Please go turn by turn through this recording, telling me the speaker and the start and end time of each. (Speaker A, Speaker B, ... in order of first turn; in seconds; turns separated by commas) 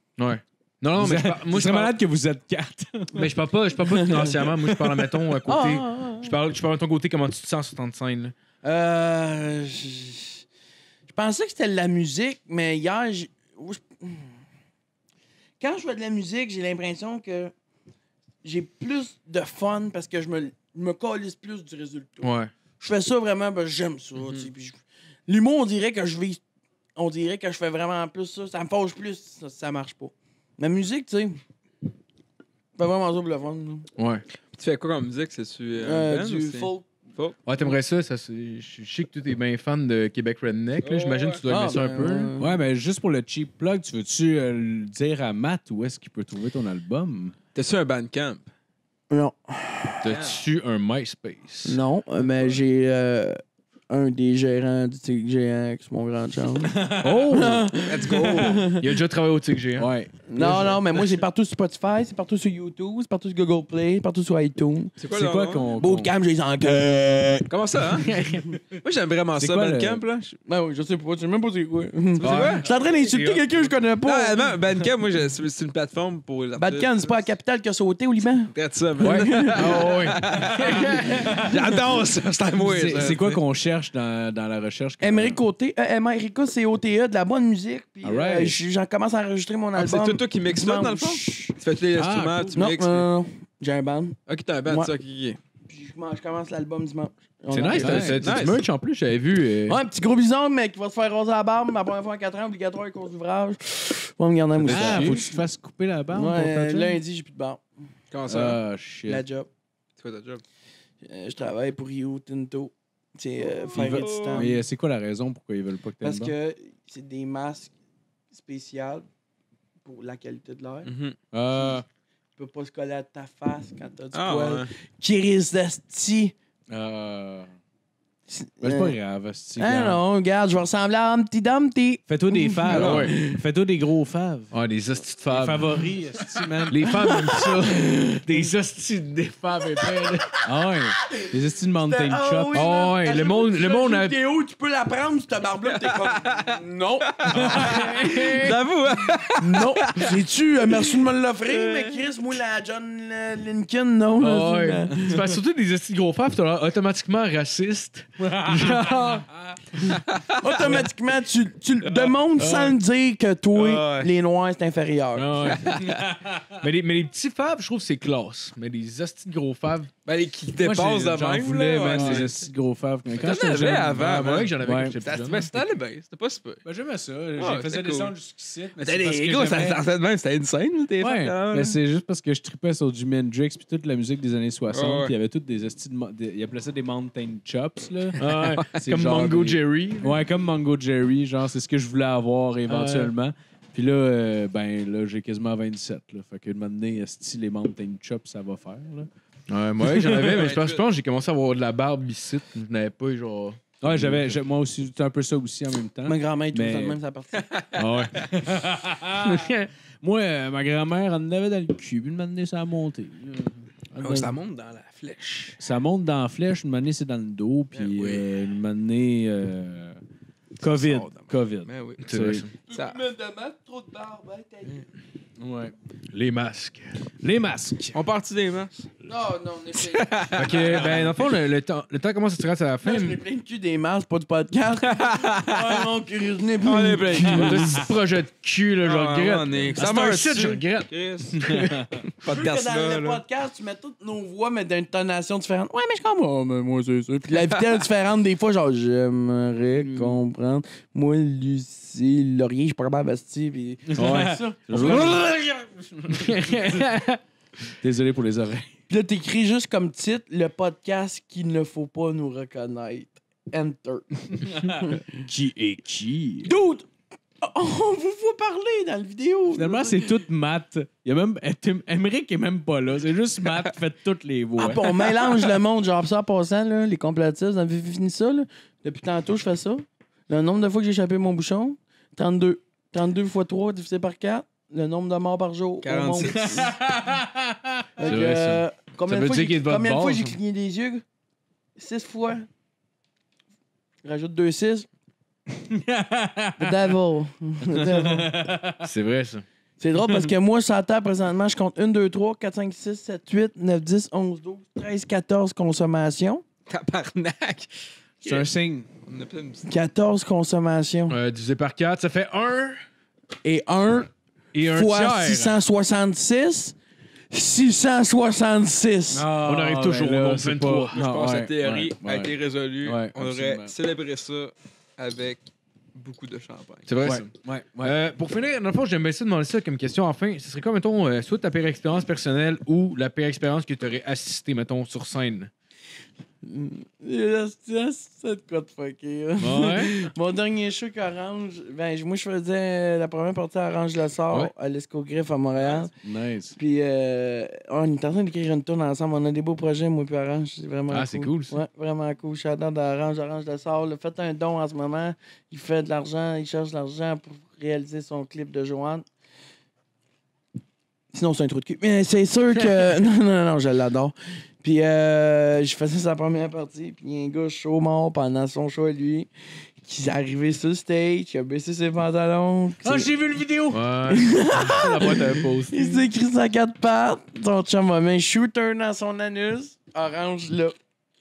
Speaker A: 0.2-1.9, Speaker B: 1.0-3.3, Speaker A: 3.1-8.3, Speaker B: 4.1-5.4, Speaker C: 5.5-6.4, Speaker C: 8.6-10.4, Speaker C: 11.1-14.3, Speaker C: 15.6-17.5, Speaker C: 18.4-26.4, Speaker A: 22.2-22.5, Speaker D: 24.2-24.5, Speaker C: 27.0-31.4, Speaker C: 32.8-33.9, Speaker A: 34.0-34.2, Speaker D: 34.6-37.4, Speaker C: 35.8-36.9, Speaker A: 37.5-42.3, Speaker D: 40.8-41.4, Speaker C: 41.5-42.5, Speaker B: 42.4-47.4, Speaker D: 47.5-48.5, Speaker C: 49.1-50.1, Speaker A: 50.0-51.8, Speaker D: 50.1-50.4, Speaker C: 51.6-56.7, Speaker B: 56.7-57.4, Speaker A: 57.0-57.7, Speaker C: 57.3-58.9, Speaker D: 57.8-58.7, Speaker A: 58.8-59.9, Speaker B: 59.8-61.0, Speaker C: 60.3-64.9, Speaker D: 65.0-65.8, Speaker B: 65.1-66.1, Speaker C: 65.8-67.5, Speaker D: 67.5-68.2, Speaker A: 68.1-68.4, Speaker D: 68.8-70.4, Speaker B: 69.4-70.0, Speaker C: 70.5-74.5, Speaker D: 72.2-72.7, Speaker A: 72.2-73.7, Speaker D: 74.0-77.3, Speaker C: 76.6-80.0, Speaker D: 78.5-83.4, Speaker A: 79.0-81.3, Speaker B: 82.6-85.4, Speaker C: 85.0-91.6, Speaker B: 88.0-88.6, Speaker D: 89.8-93.1, Speaker B: 92.0-92.5, Speaker C: 92.5-94.9, Speaker D: 94.3-95.4, Speaker C: 95.7-98.2, Speaker A: 97.5-99.8, Speaker B: 97.7-98.2, Speaker D: 98.2-98.6, Speaker C: 99.7-105.3, Speaker A: 104.6-105.3, Speaker B: 104.6-107.0, Speaker C: 106.1-107.6, Speaker D: 108.1-108.6, Speaker B: 108.3-109.2, Speaker C: 109.1-109.5, Speaker D: 110.0-110.4, Speaker C: 111.0-114.6, Speaker D: 113.4-114.5, Speaker B: 113.7-116.3, Speaker C: 116.0-117.7, Speaker C: 118.3-119.1, Speaker C: 119.8-120.9, Speaker D: 120.8-121.2, Speaker B: 121.3-121.8, Speaker C: 122.4-126.3, Speaker D: 124.1-124.7, Speaker B: 126.7-127.5, Speaker C: 128.3-129.0, Speaker B: 128.6-130.0, Speaker C: 129.6-133.4, Speaker B: 132.1-134.5, Speaker D: 132.7-133.1, Speaker A: 132.7-133.1, Speaker A: 134.5-135.9, Speaker B: 135.3-136.8, Speaker A: 136.7-140.4, Speaker C: 136.8-138.2, Speaker C: 139.8-140.3, Speaker B: 140.4-142.7, Speaker C: 141.9-148.4, Speaker A: 142.5-144.2, Speaker D: 145.6-150.2, Speaker B: 147.3-147.7, Speaker A: 147.4-148.6, Speaker C: 149.4-155.3, Speaker A: 154.2-159.3, Speaker B: 158.2-159.6, Speaker D: 159.9-160.8, Speaker C: 160.4-165.6, Speaker D: 161.8-162.1, Speaker A: 162.4-162.8, Speaker D: 163.5-164.1, Speaker A: 165.2-165.8, Speaker D: 165.5-166.0, Speaker B: 165.8-166.5, Speaker A: 166.6-169.9, Speaker D: 170.1-172.3, Speaker B: 170.6-174.1, Speaker A: 171.9-172.3, Speaker D: 173.2-176.6, Speaker A: 173.6-175.5, Speaker B: 174.6-175.0, Speaker B: 176.7-179.8, Speaker D: 177.4-178.1, Speaker D: 178.8-181.8, Speaker A: 179.4-179.7, Speaker B: 181.0-199.1, Speaker D: 184.7-185.1, Speaker A: 188.2-190.2, Speaker D: 188.3-188.7, Speaker A: 192.7-193.1, Speaker A: 199.5-204.4, Speaker B: 199.9-200.3, Speaker D: 200.2-200.8, Speaker B: 203.8-207.0, Speaker C: 206.1-207.5, Speaker D: 207.4-207.8, Speaker A: 207.8-208.2, Speaker B: 208.3-209.4, Speaker A: 209.2-209.7, Speaker B: 210.0-213.7, Speaker C: 214.0-214.3, Speaker D: 214.0-215.6, Speaker B: 215.6-220.0, Speaker D: 217.7-218.2, Speaker B: 220.6-222.5, Speaker D: 220.7-222.0, Speaker A: 222.0-222.5, Speaker C: 222.7-224.8, Speaker D: 222.7-223.0, Speaker B: 225.4-225.7, Speaker A: 226.1-227.0, Speaker B: 227.2-228.0, Speaker D: 227.9-228.8, Speaker C: 229.1-230.1, Speaker D: 229.8-231.2, Speaker A: 230.4-233.2, Speaker C: 232.8-237.6, Speaker D: 234.9-235.8, Speaker D: 236.6-237.8, Speaker A: 237.1-241.9, Speaker B: 237.4-237.7, Speaker D: 238.8-243.2, Speaker B: 241.5-241.9, Speaker C: 242.2-255.3, Speaker B: 253.9-255.2, Speaker A: 254.0-255.2, Speaker A: 256.1-257.2, Speaker B: 257.8-258.7, Speaker C: 258.9-265.0, Speaker B: 264.5-266.5, Speaker C: 266.4-270.2, Speaker B: 269.5-275.1, Speaker C: 274.6-286.7, Speaker D: 285.8-286.7, Speaker B: 286.2-287.9, Speaker C: 288.0-291.1, Speaker A: 288.0-290.4, Speaker C: 291.8-292.5, Speaker C: 294.0-294.9, Speaker B: 295.6-296.9, Speaker C: 296.6-298.3, Speaker B: 297.7-298.9, Speaker A: 298.8-299.4, Speaker C: 299.8-306.4, Speaker D: 306.7-308.5, Speaker B: 308.2-308.9, Speaker D: 309.1-309.6, Speaker C: 309.7-311.2, Speaker A: 311.1-312.8, Speaker C: 313.4-316.8, Speaker A: 314.5-315.6, Speaker C: 317.3-319.3, Speaker B: 319.1-323.7, Speaker A: 319.4-321.0, Speaker D: 320.9-325.4, Speaker D: 325.9-327.2, Speaker A: 326.9-327.2, Speaker B: 327.0-328.0, Speaker A: 327.8-335.5, Speaker C: 336.4-345.9, Speaker A: 339.4-340.0, Speaker B: 345.9-346.6, Speaker C: 346.6-359.1, Speaker A: 350.9-351.6, Speaker C: 361.1-369.3, Speaker C: 369.8-373.1, Speaker B: 372.8-373.8, Speaker A: 373.7-376.1, Speaker C: 374.1-380.8